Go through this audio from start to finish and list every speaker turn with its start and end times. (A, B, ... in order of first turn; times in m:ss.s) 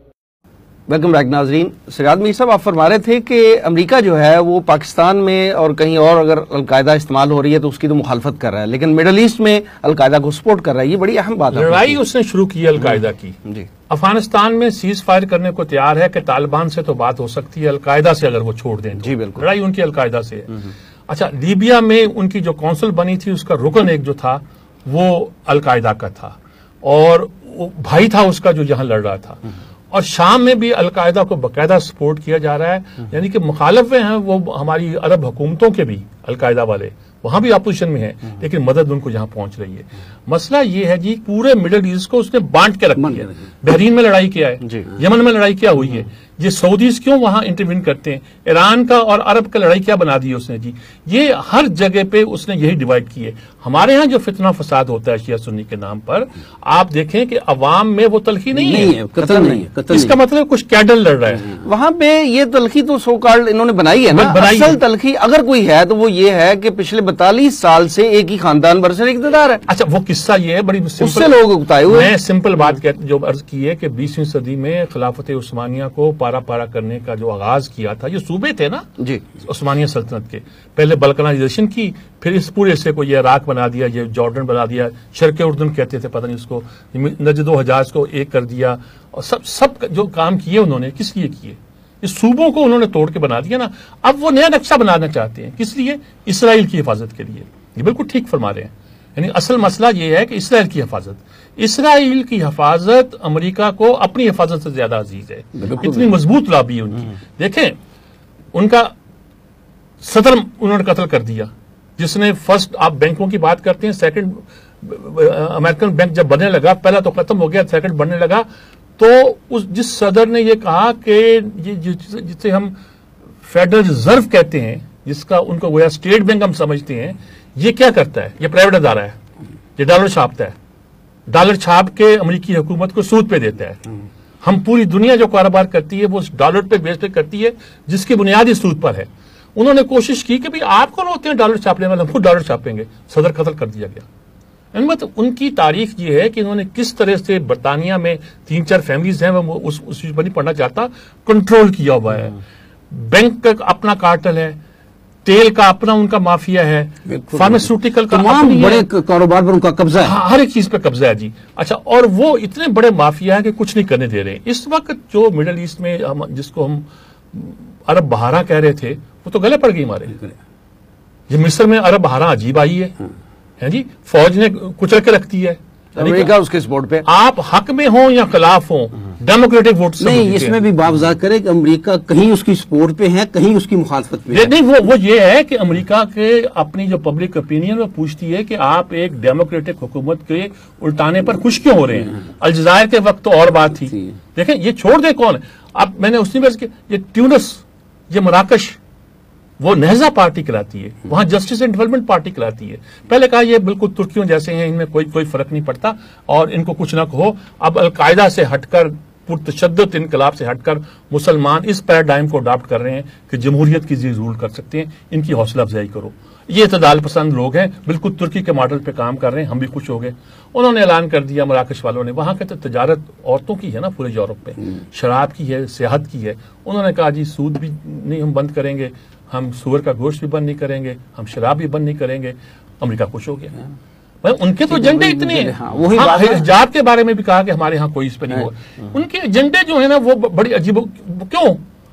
0:00.9-0:12.0 A
0:11.5-0:13.4 B
0:13.9-0:59.0 B
0:19.0-0:19.4 A
0:43.0-0:43.3 C
0:58.5-1:00.2 C
0:59.2-0:59.6 A
0:59.9-1:01.6 B
1:01.6-1:09.6 A
1:04.1-1:04.8 B
1:09.7-1:18.8 B
1:11.0-1:12.1 A
1:19.4-1:47.8 B
1:45.6-1:46.1 C
1:48.5-1:48.9 B
1:50.0-1:58.4 B
1:59.0-2:02.7 B
2:03.4-2:09.2 B
2:09.8-2:10.6 B
2:11.3-2:13.8 B
2:14.4-2:24.0 B
2:24.7-2:32.4 B
2:32.9-2:34.6 B
2:35.2-2:38.8 B
2:37.1-2:40.2 C
2:40.0-2:50.2 B
2:51.3-2:52.9 B
2:53.6-2:56.3 B
2:55.9-2:57.0 A
2:57.0-3:00.6 B
3:00.0-3:04.5 C
3:04.3-3:18.8 B
3:19.6-3:53.5 B
3:54.2-4:01.6 B
3:54.7-3:56.5 C